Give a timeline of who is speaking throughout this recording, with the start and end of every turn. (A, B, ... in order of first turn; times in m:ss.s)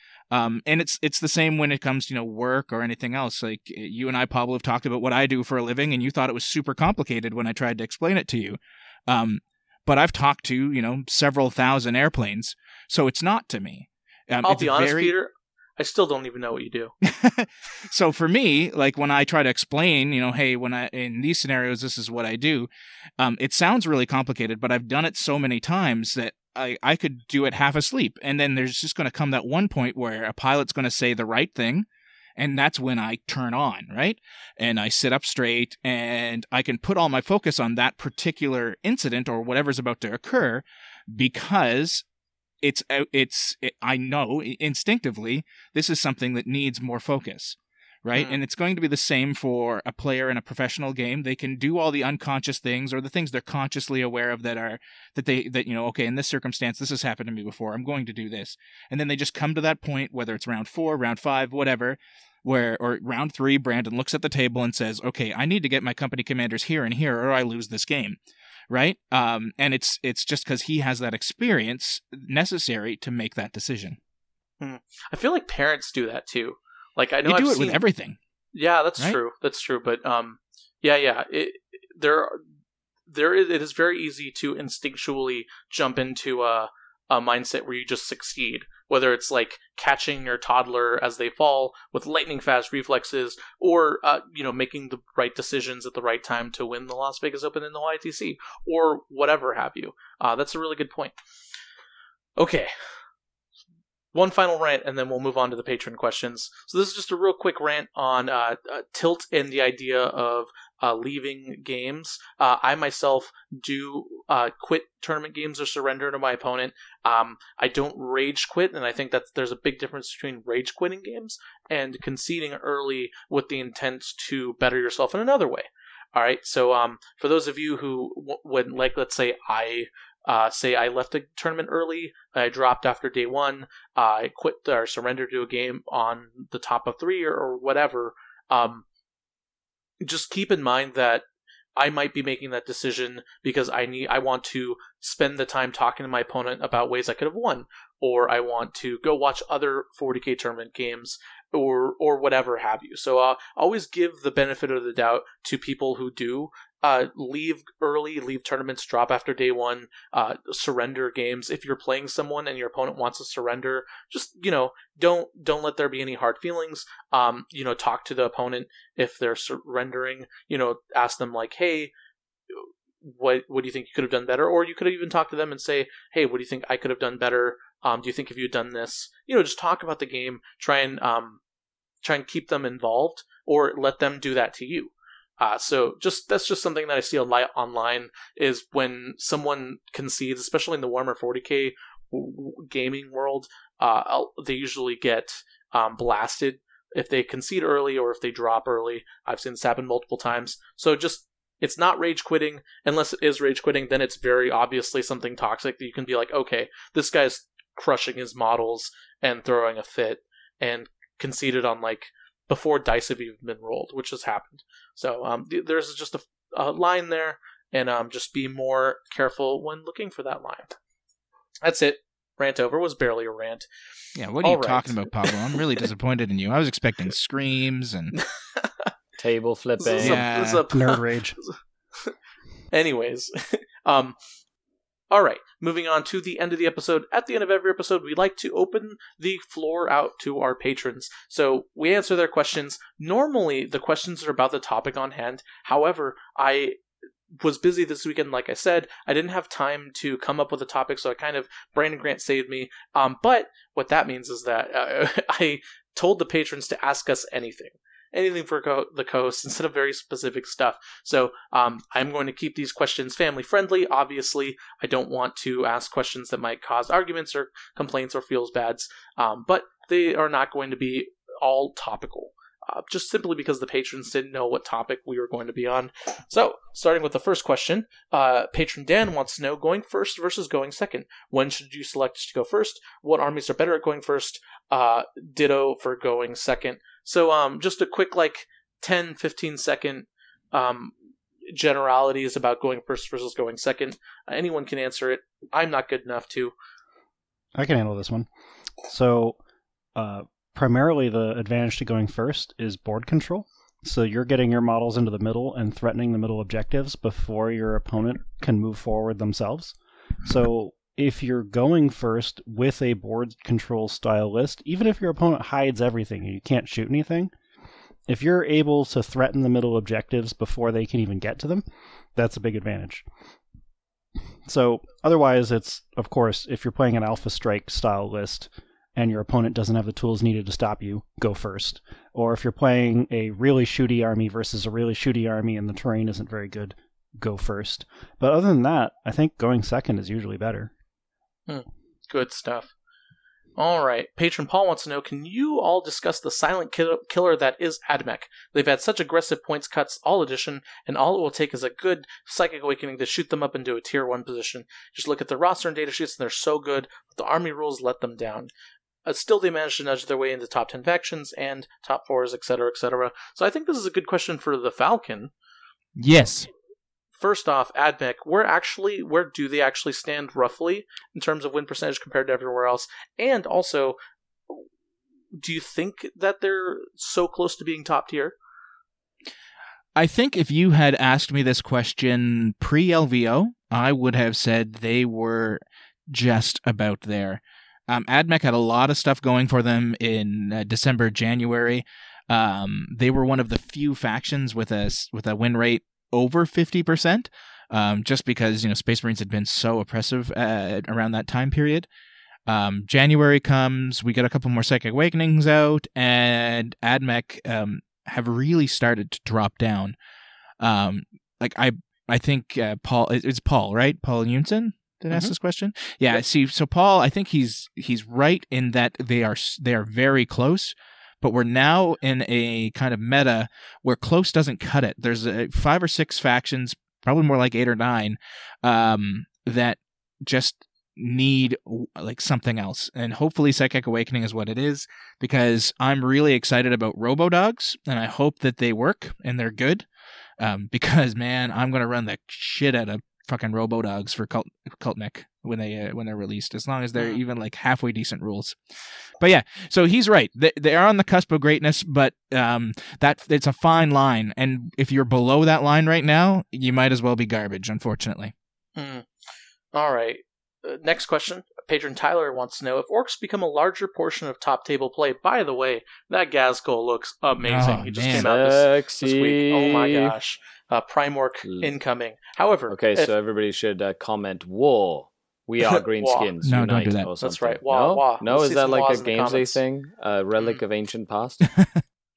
0:00.3-0:15.1 A
0:14.4-0:16.9 B
0:17.0-0:31.9 A
0:32.4-0:42.0 A
0:42.6-1:08.2 A
0:48.2-0:48.4 B
1:08.7-1:14.0 A
1:14.6-1:17.8 B
1:17.3-1:18.2 A
1:18.5-1:22.4 B
1:23.1-1:41.2 B
1:42.4-1:42.7 B
1:44.1-2:18.8 B
2:20.0-2:21.2 B
2:21.8-2:51.9 B
2:52.5-3:01.4 B
3:02.0-3:40.8 B
3:41.6-3:43.7 B
3:44.2-3:48.2 A
3:44.4-3:45.6 B
3:48.1-3:48.9 B
3:49.2-3:50.2 C
3:49.8-3:52.1 B
3:50.0-3:50.6 A
3:50.7-3:51.4 D
3:52.7-3:54.2 B
3:55.1-4:06.8 B
4:07.3-4:50.9 B
4:51.5-4:56.5 B
4:57.6-4:58.3 D
4:58.9-4:59.4 D
5:00.0-5:17.3 D
5:18.1-5:21.6 D
5:22.2-5:23.1 D
5:24.4-5:40.7 D
5:41.5-5:42.7 B
5:43.6-5:58.5 B
5:59.1-6:05.3 B
6:06.0-6:06.5 A
6:07.2-6:14.0 B
6:15.3-6:18.4 B
6:20.0-6:41.9 A
6:42.5-6:50.0 A
6:50.6-7:19.9 A
7:20.4-7:28.6 A
7:27.0-7:27.2 B
7:29.2-7:38.3 A
7:38.8-7:39.1 B
7:39.7-7:53.1 B
7:47.4-7:48.3 A
7:48.1-7:50.2 C
7:51.4-7:51.7 C
7:52.7-8:01.6 C
7:55.6-7:56.3 B
7:56.4-7:57.1 A
7:57.2-7:59.6 B